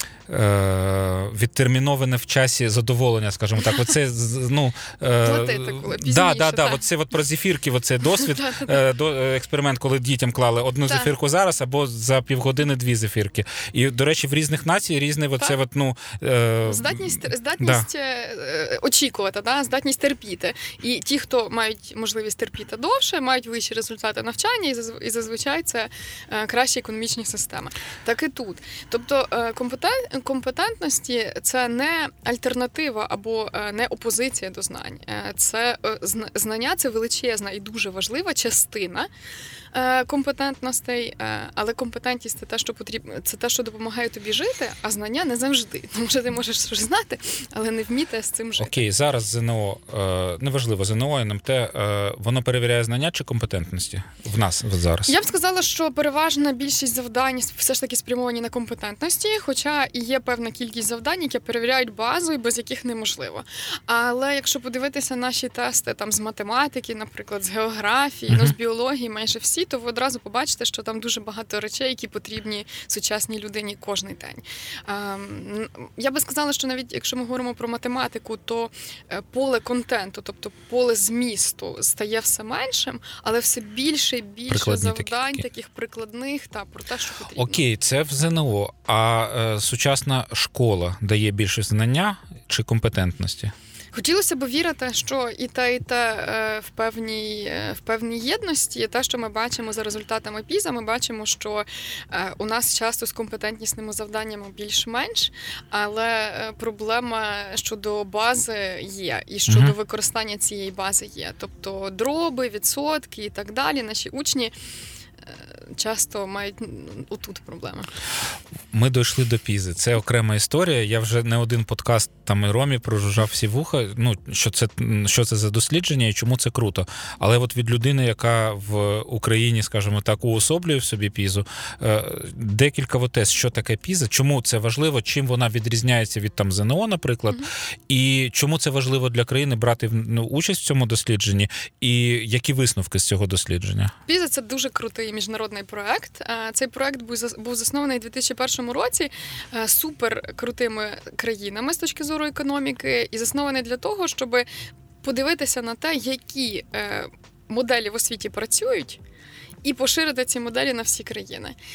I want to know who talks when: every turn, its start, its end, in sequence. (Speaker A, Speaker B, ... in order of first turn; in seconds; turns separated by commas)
Speaker A: 0.3-17.9, Speaker B: 5.2-6.8, Speaker B: 8.1-8.8, Speaker B: 10.9-11.1, Speaker B: 16.6-39.1, Speaker B: 39.7-48.8, Speaker A: 48.6-55.1, Speaker B: 55.1-87.6, Speaker A: 68.3-68.5, Speaker A: 84.5-85.4, Speaker A: 87.3-93.5, Speaker B: 93.9-114.5, Speaker A: 109.5-109.7, Speaker B: 115.7-117.9, Speaker A: 118.7-143.9, Speaker B: 144.1-154.5, Speaker B: 155.0-159.0, Speaker B: 159.6-161.6